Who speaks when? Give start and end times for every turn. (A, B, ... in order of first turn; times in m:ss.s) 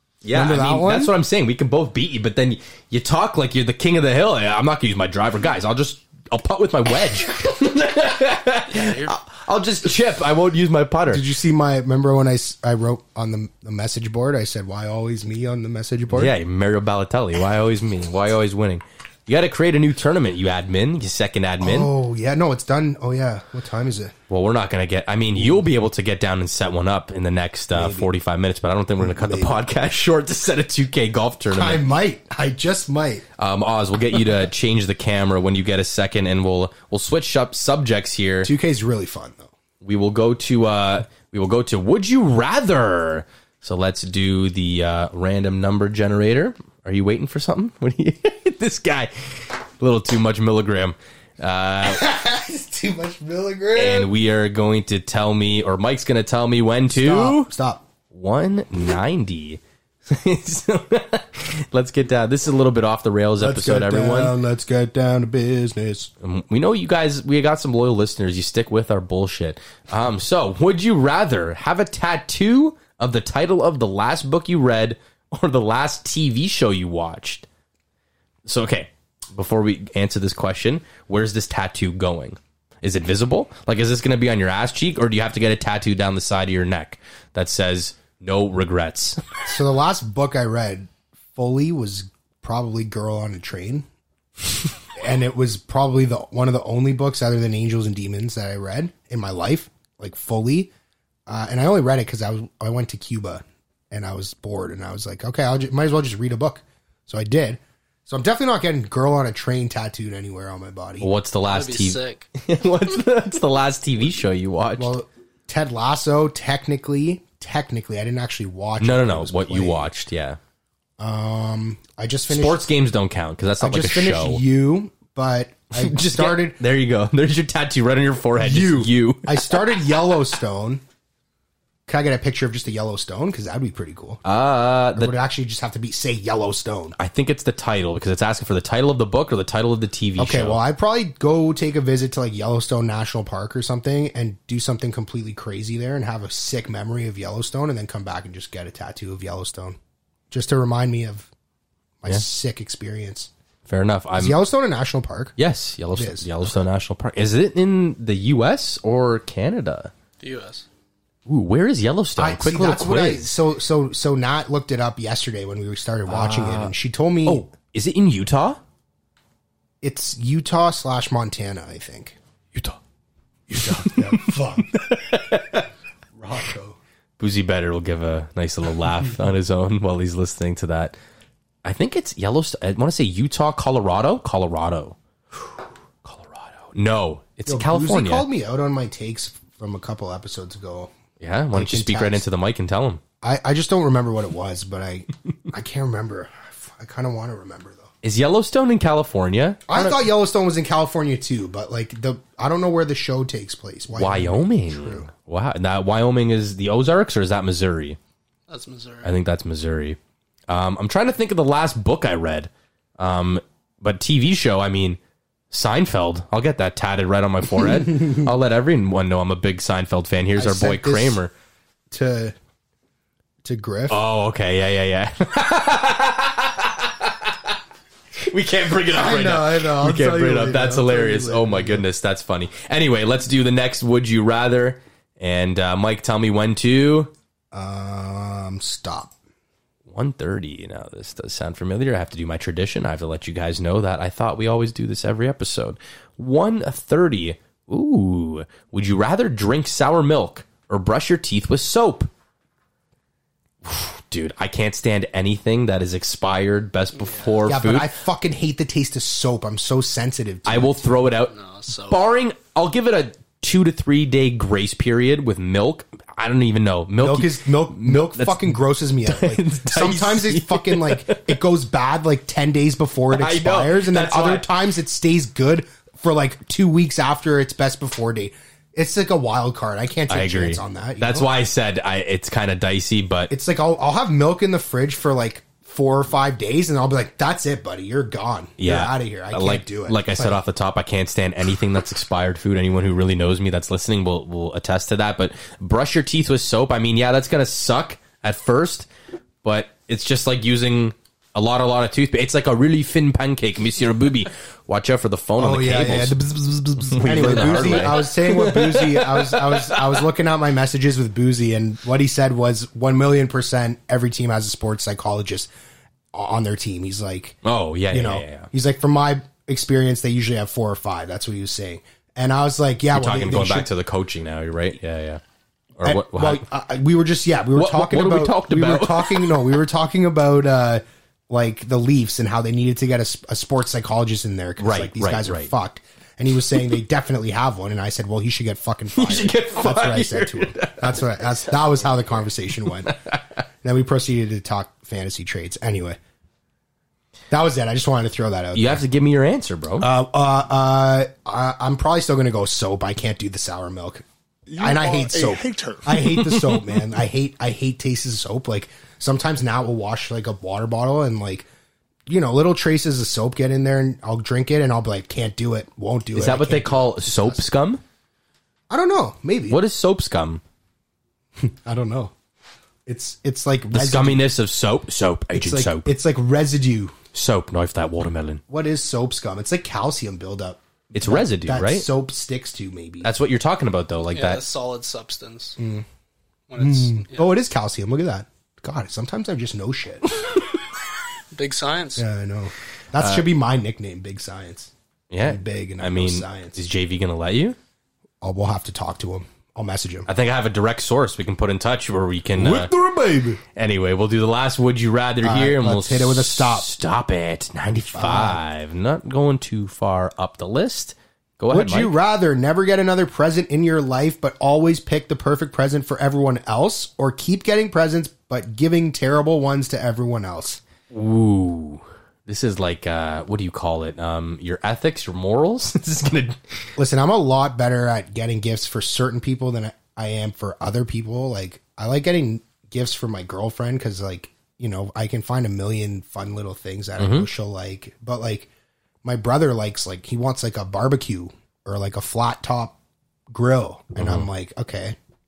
0:00.2-0:11.2 A
0:00.3-0:01.1 B
0:08.7-0:09.1 C
0:11.1-0:16.3 B
0:16.1-0:21.9 A
0:21.6-0:24.1 B
0:24.3-0:31.8 A
0:25.4-0:25.6 B
0:27.7-0:28.1 B
0:29.0-0:29.6 B
0:31.5-0:33.2 B
0:33.4-0:38.5 A
0:38.4-0:39.5 B
0:39.8-0:52.0 A
0:51.8-0:54.1 B
0:53.7-0:57.5 A
0:56.9-0:57.8 B
0:58.1-1:04.3 A
1:03.4-1:06.1 B
1:06.2-1:17.5 A
1:18.4-1:29.2 A
1:29.4-1:33.9 B
1:35.0-1:40.7 B
1:41.3-1:51.1 B
1:51.0-1:54.9 A
1:51.4-1:52.3 C
1:54.8-1:59.9 B
1:58.8-2:00.4 A
2:01.0-2:02.7 B
2:02.3-2:04.4 A
2:03.6-2:06.6 B
2:05.7-2:09.6 A
2:08.4-2:10.8 B
2:11.9-2:14.2 B
2:14.2-2:15.1 A
2:14.9-2:17.0 B
2:17.0-2:20.6 A
2:20.2-2:29.8 B
2:30.3-2:31.3 B
2:32.0-2:33.3 B
2:33.6-2:34.4 A
2:34.2-2:35.4 B
2:35.4-2:39.9 A
2:35.9-2:36.3 B
2:40.2-2:40.6 C
2:41.3-2:43.3 A
2:42.2-2:47.5 B
2:46.1-2:46.7 A
2:47.2-2:48.6 A
2:49.8-2:52.2 B
2:53.5-2:55.7 A
2:53.5-2:54.8 B
2:56.1-2:56.8 B
2:57.2-3:01.0 A
3:01.6-3:05.5 A
3:06.0-3:08.3 A
3:07.4-3:10.9 B
3:11.2-3:13.0 A
3:11.5-3:12.2 B
3:13.2-3:17.9 B
3:18.0-3:20.0 A
3:19.7-3:25.1 B
3:23.9-3:28.0 A
3:28.5-3:29.1 C
3:29.0-3:30.0 A
3:30.5-3:35.0 A
3:35.5-3:41.3 A
3:40.3-3:41.2 B
3:41.9-3:42.3 B
3:43.4-3:44.0 B
3:43.9-3:47.5 A
3:48.2-3:57.1 A
3:48.9-3:51.8 B
3:57.5-3:59.1 B
3:59.9-4:12.1 A
4:13.6-4:17.9 A
4:17.0-4:17.4 C
4:17.4-4:20.7 B
4:20.4-4:21.3 A
4:21.3-4:22.0 C
4:21.9-4:31.4 A
4:27.0-4:41.3 B
4:33.1-4:34.5 A
4:40.1-4:43.3 A
4:43.3-4:50.4 B
4:48.6-4:58.9 A
4:59.4-5:06.2 A
5:05.4-5:15.5 B
5:06.8-5:10.0 A
5:16.1-5:17.4 B
5:17.4-5:18.5 A
5:17.9-5:23.7 B
5:22.9-5:25.2 A
5:25.8-5:26.4 A
5:25.8-5:43.0 B
5:27.5-5:29.4 A
5:34.6-5:35.5 A
5:38.9-5:41.8 A
5:43.6-5:46.0 B
5:47.3-5:48.8 B
5:48.5-5:49.9 A
5:49.8-5:54.0 B
5:54.6-6:01.5 B
5:54.6-5:55.8 C
5:55.9-5:56.8 A
6:02.1-6:07.4 B
6:06.1-6:07.8 A
6:08.7-6:09.6 B
6:09.5-6:10.4 A
6:11.4-6:12.1 B
6:12.8-6:14.3 B
6:13.7-6:15.9 A
6:15.3-6:17.0 B
6:17.1-6:18.4 A
6:18.5-6:23.1 B
6:20.9-6:21.9 A
6:23.0-6:24.4 A
6:24.1-6:25.6 C
6:25.6-6:25.8 B
6:26.5-6:27.3 C
6:26.6-6:30.1 B
6:31.3-6:32.0 C
6:32.0-6:34.7 B
6:33.0-6:33.3 A
6:35.1-6:37.6 A
6:35.2-6:36.6 B
6:38.2-6:40.1 B
6:40.1-6:42.7 A
6:42.3-6:43.4 B
6:43.5-6:52.0 A
6:45.2-6:46.7 B
6:47.9-6:48.4 B
6:51.5-7:00.6 B
7:00.9-7:06.4 A
7:06.8-7:18.5 B
7:17.0-7:17.3 A
7:19.0-7:22.8 B
7:23.3-7:25.0 B
7:24.0-7:24.3 A